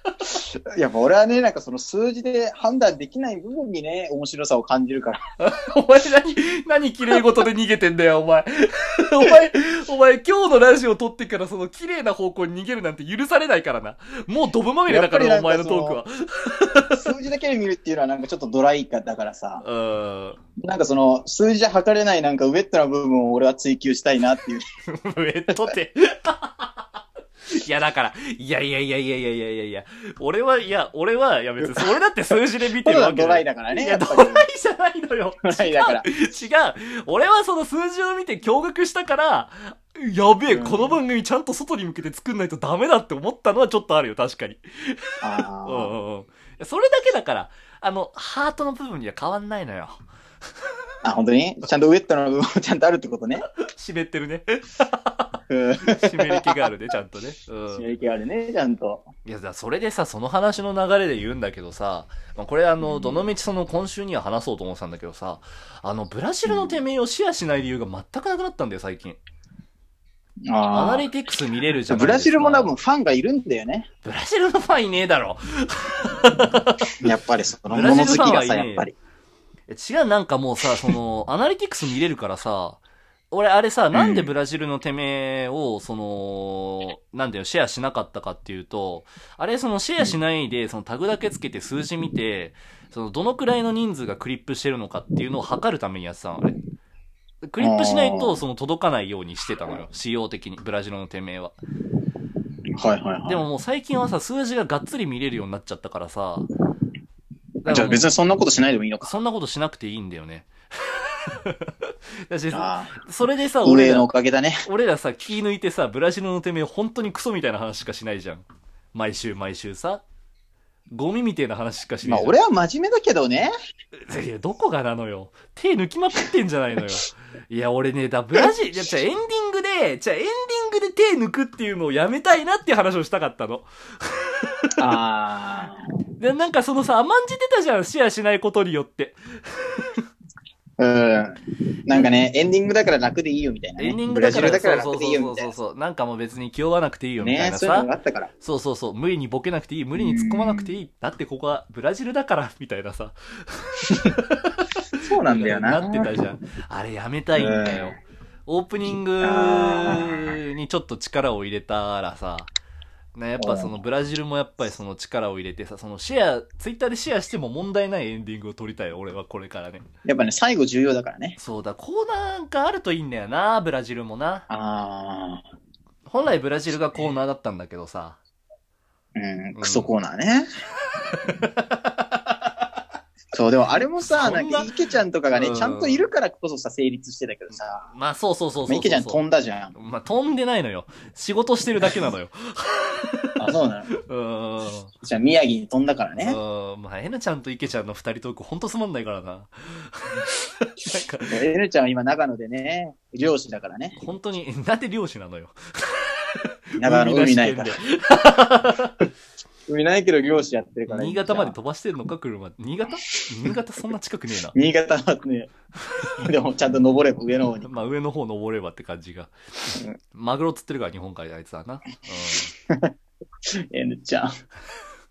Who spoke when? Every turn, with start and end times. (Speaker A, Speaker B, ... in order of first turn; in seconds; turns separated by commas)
Speaker A: 0.8-5.2, Speaker B: 5.4-17.0, Speaker A: 14.9-16.0, Speaker A: 16.9-19.6, Speaker B: 19.6-20.4, Speaker A: 20.6-24.6, Speaker B: 24.9-26.7, Speaker B: 27.5-45.0, Speaker A: 32.8-34.5, Speaker A: 35.5-36.1, Speaker A: 40.5-41.0, Speaker A: 45.2-45.9, Speaker B: 45.6-50.0, Speaker A: 51.0-53.5, Speaker B: 53.4-57.9, Speaker A: 55.5-56.7, Speaker A: 57.7-59.1, Speaker B: 59.2-69.2, Speaker A: 62.8-63.2, Speaker A: 66.5-66.8, Speaker A: 70.5-71.1, Speaker B: 70.7-72.7, Speaker A: 71.9-73.9, Speaker B: 74.0-76.9, Speaker A: 77.0-78.9, Speaker B: 77.7-78.9, Speaker B: 79.7-82.8, Speaker B: 83.3-96.6, Speaker A: 83.9-84.3, Speaker B: 97.4-101.6, Speaker A: 97.6-98.4, Speaker A: 102.8-103.5, Speaker B: 103.3-106.5, Speaker B: 107.6-108.1, Speaker A: 107.7-109.1, Speaker B: 109.0-111.7, Speaker B: 112.3-114.1, Speaker A: 112.5-112.9, Speaker A: 113.6-114.7, Speaker B: 114.7-120.0, Speaker B: 120.9-122.4, Speaker A: 122.0-123.5, Speaker B: 124.1-134.7, Speaker A: 134.8-135.8, Speaker B: 136.2-140.0, Speaker A: 140.8-145.5, Speaker B: 143.8-147.9, Speaker A: 147.2-148.3, Speaker B: 148.4-154.7, Speaker A: 150.0-150.7, Speaker A: 155.0-156.1, Speaker B: 155.2-162.5, Speaker A: 157.4-158.0, Speaker A: 159.2-160.3, Speaker B: 163.2-169.8, Speaker A: 163.4-163.7, Speaker A: 170.1-171.4, Speaker B: 171.4-174.5, Speaker A: 174.5-175.5, Speaker B: 176.1-178.2, Speaker A: 179.2-180.5, Speaker B: 179.6-179.9, Speaker B: 181.1-182.2, Speaker A: 183.3-187.9, Speaker B: 184.0-184.7, Speaker B: 185.3-186.1, Speaker B: 187.9-189.2, Speaker A: 188.7-189.8, Speaker B: 189.8-193.4, Speaker A: 193.4-193.9, Speaker B: 194.1-194.9, Speaker A: 195.0-196.4, Speaker B: 196.2-201.3, Speaker A: 201.3-204.0, Speaker B: 204.0-206.2, Speaker B: 206.8-209.1, Speaker A: 206.8-207.8, Speaker A: 209.7-211.6, Speaker B: 210.9-214.6, Speaker A: 214.5-215.5, Speaker A: 216.2-217.7, Speaker B: 217.6-219.3, Speaker B: 220.1-222.5, Speaker A: 223.7-224.3